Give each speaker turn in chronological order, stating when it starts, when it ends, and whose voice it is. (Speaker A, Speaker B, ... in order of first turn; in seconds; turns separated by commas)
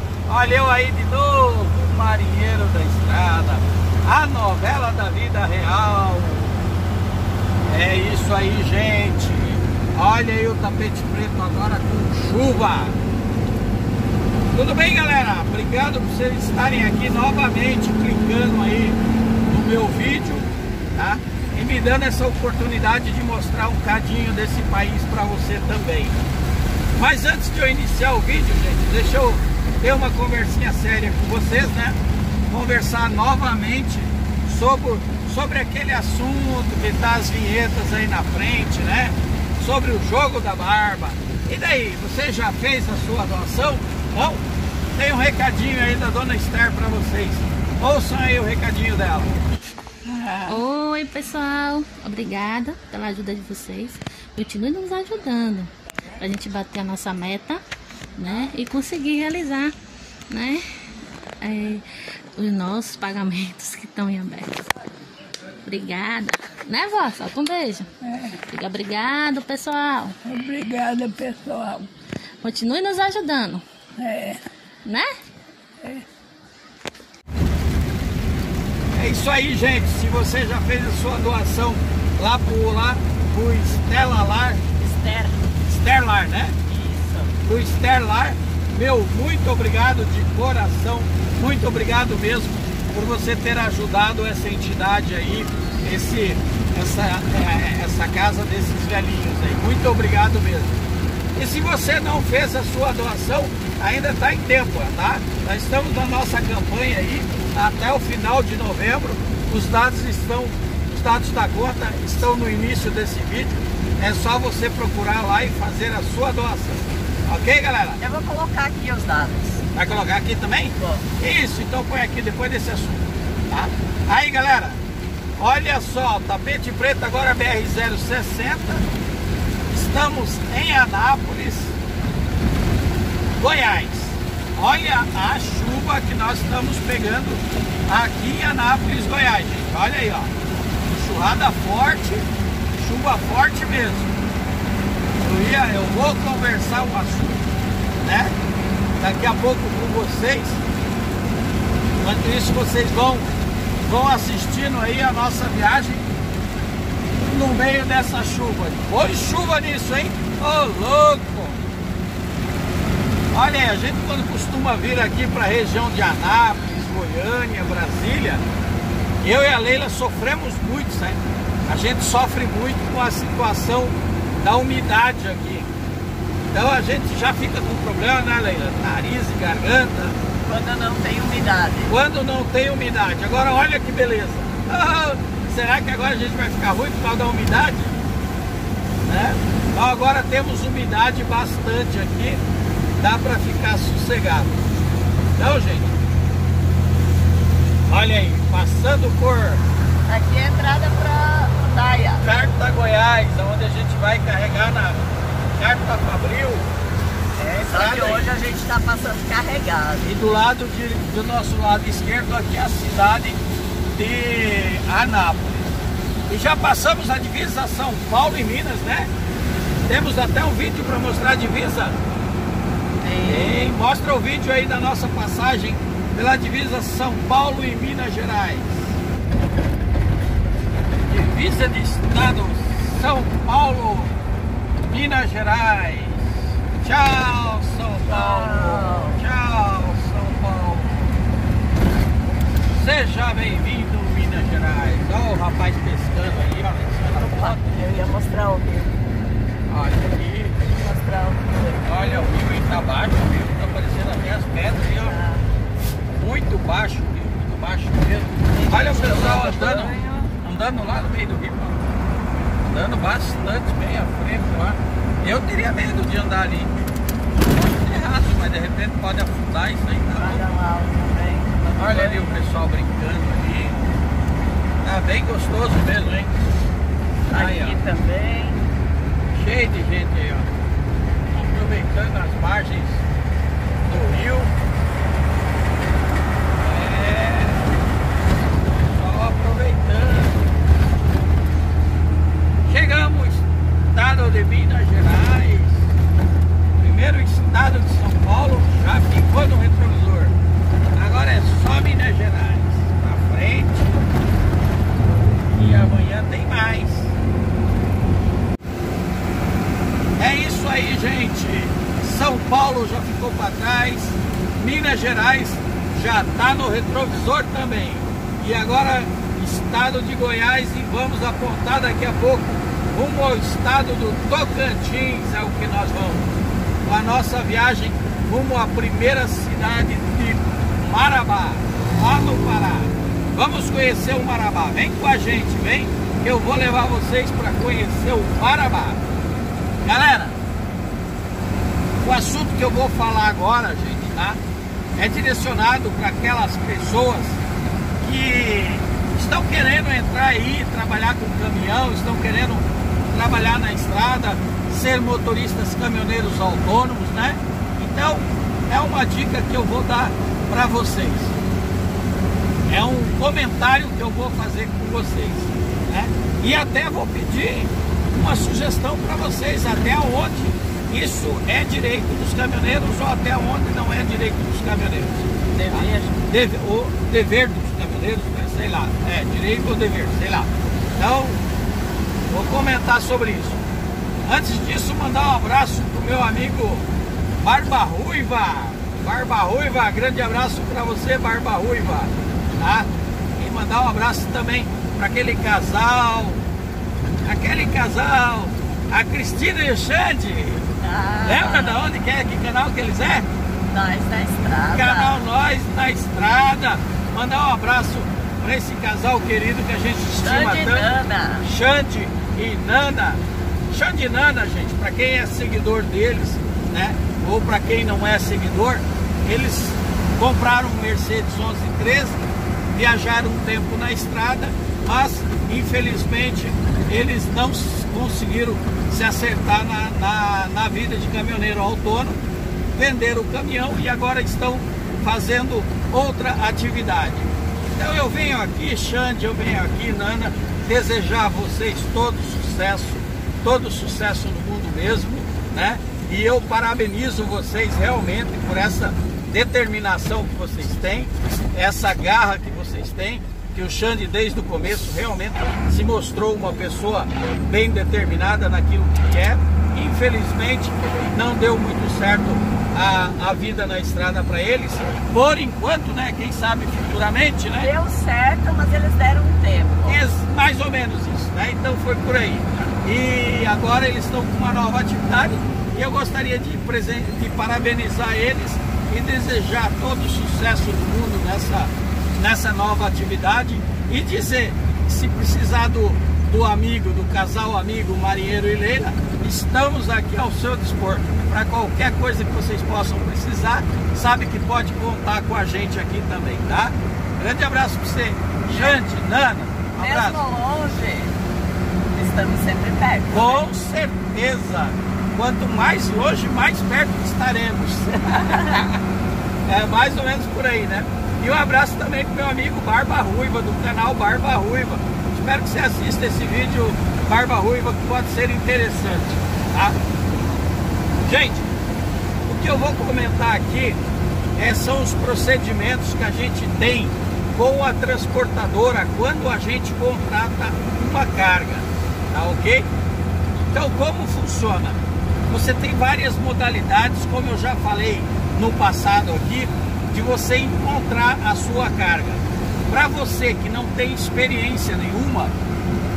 Speaker A: 0.3-6.6, Speaker A: 7.7-13.0, Speaker A: 14.5-26.2, Speaker A: 26.9-32.0, Speaker A: 32.5-44.4, Speaker A: 45.0-49.4, Speaker A: 50.1-50.6, Speaker B: 50.5-57.6, Speaker B: 58.1-59.7, Speaker B: 60.3-60.6, Speaker B: 61.4-61.8, Speaker B: 62.4-64.7, Speaker B: 65.6-70.2, Speaker C: 68.0-68.4, Speaker C: 70.2-71.9, Speaker B: 72.4-73.6, Speaker C: 74.0-74.4, Speaker A: 78.9-84.6, Speaker D: 84.8-85.4, Speaker A: 85.7-86.6, Speaker D: 86.7-87.4, Speaker A: 87.4-100.8, Speaker A: 101.3-118.0, Speaker D: 118.0-119.6, Speaker A: 119.7-124.8, Speaker D: 120.8-121.0, Speaker A: 125.4-128.9, Speaker A: 129.7-131.8, Speaker A: 133.4-140.3, Speaker A: 140.9-144.1, Speaker A: 145.2-147.4, Speaker A: 148.0-148.3, Speaker A: 149.0-150.6, Speaker A: 152.0-156.1, Speaker A: 157.2-161.7, Speaker A: 163.3-168.4, Speaker A: 169.2-175.7, Speaker A: 176.5-180.2, Speaker D: 180.4-181.9, Speaker A: 181.9-188.0, Speaker A: 189.0-192.4, Speaker A: 193.0-194.7, Speaker A: 195.3-196.0, Speaker A: 197.8-199.6, Speaker D: 200.1-202.3, Speaker A: 202.2-206.7, Speaker D: 207.4-210.1, Speaker A: 207.7-208.3, Speaker A: 210.0-213.4, Speaker A: 213.9-215.7, Speaker A: 216.3-219.1, Speaker A: 219.8-222.0, Speaker D: 223.0-223.7, Speaker A: 223.2-228.9, Speaker A: 231.1-234.1, Speaker A: 234.8-241.2, Speaker D: 238.1-239.2, Speaker A: 242.7-247.9, Speaker D: 247.1-249.0, Speaker A: 249.7-250.7, Speaker D: 250.7-252.2, Speaker A: 251.8-255.2, Speaker D: 255.0-255.4, Speaker A: 256.1-261.9, Speaker D: 258.5-260.3, Speaker A: 262.6-266.7, Speaker A: 267.3-270.4, Speaker D: 270.1-272.4, Speaker A: 271.8-273.8, Speaker A: 274.8-276.3, Speaker D: 277.3-278.6, Speaker A: 277.3-277.8, Speaker A: 279.3-280.5, Speaker A: 281.3-283.0, Speaker A: 283.9-284.5, Speaker A: 286.6-287.8, Speaker A: 288.7-290.4, Speaker A: 292.6-295.9, Speaker A: 296.8-300.3, Speaker A: 300.9-304.0, Speaker A: 305.5-307.1, Speaker A: 310.2-326.3, Speaker A: 326.8-339.0, Speaker A: 339.8-340.4, Speaker A: 342.0-344.4, Speaker A: 344.9-347.4, Speaker A: 348.0-361.4, Speaker A: 362.7-381.4, Speaker D: 375.5-376.2, Speaker A: 382.3-383.6, Speaker A: 384.2-386.9, Speaker A: 387.4-396.4, Speaker A: 397.2-400.7, Speaker D: 400.8-401.8, Speaker A: 401.2-403.3, Speaker D: 403.7-405.2, Speaker A: 404.7-410.9, Speaker D: 410.2-411.5, Speaker A: 411.4-422.2, Speaker A: 422.7-432.2, Speaker A: 432.7-467.7, Speaker D: 467.6-470.0, Speaker A: 469.9-500.2, Speaker D: 498.5-498.7, Speaker D: 499.8-501.1, Speaker D: 501.9-503.5, Speaker A: 503.1-508.8, Speaker A: 509.4-519.8, Speaker A: 521.0-521.5, Speaker A: 522.2-523.8, Speaker A: 524.4-532.7, Speaker A: 533.5-545.4